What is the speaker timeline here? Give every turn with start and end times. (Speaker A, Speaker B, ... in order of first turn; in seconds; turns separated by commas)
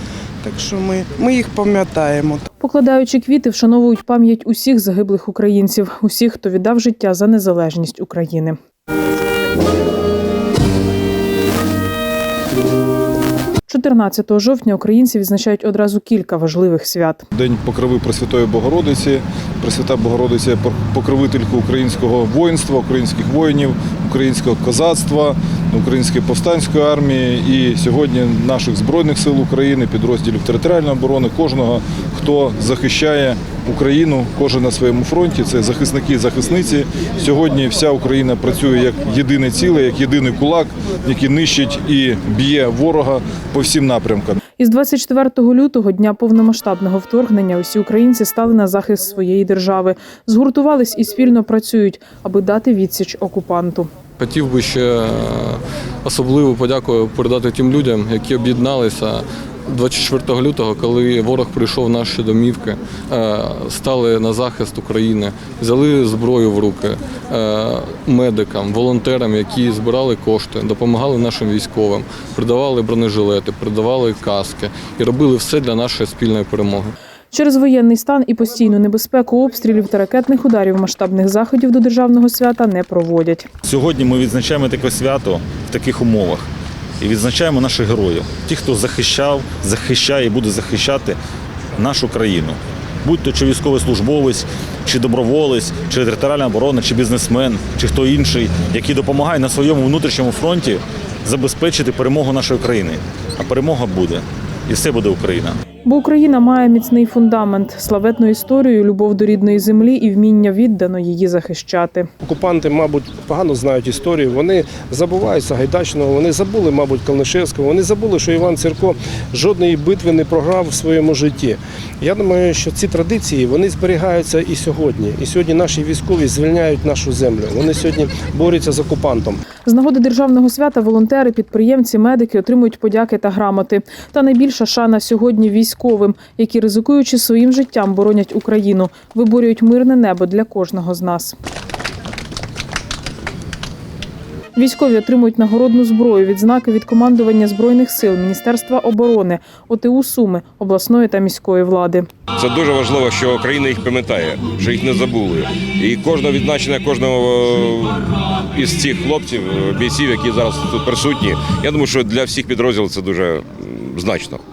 Speaker A: 0.4-2.5, Speaker B: 2.6-8.6, Speaker B: 13.7-17.2, Speaker C: 17.3-44.4, Speaker B: 44.6-53.9, Speaker D: 54.2-76.9, Speaker B: 77.3-83.5, Speaker E: 83.6-86.5, Speaker E: 87.0-91.2, Speaker E: 91.8-105.6, Speaker B: 105.8-112.1, Speaker F: 112.2-129.4, Speaker B: 129.6-141.3, Speaker B: 144.6-152.1, Speaker G: 152.4-164.4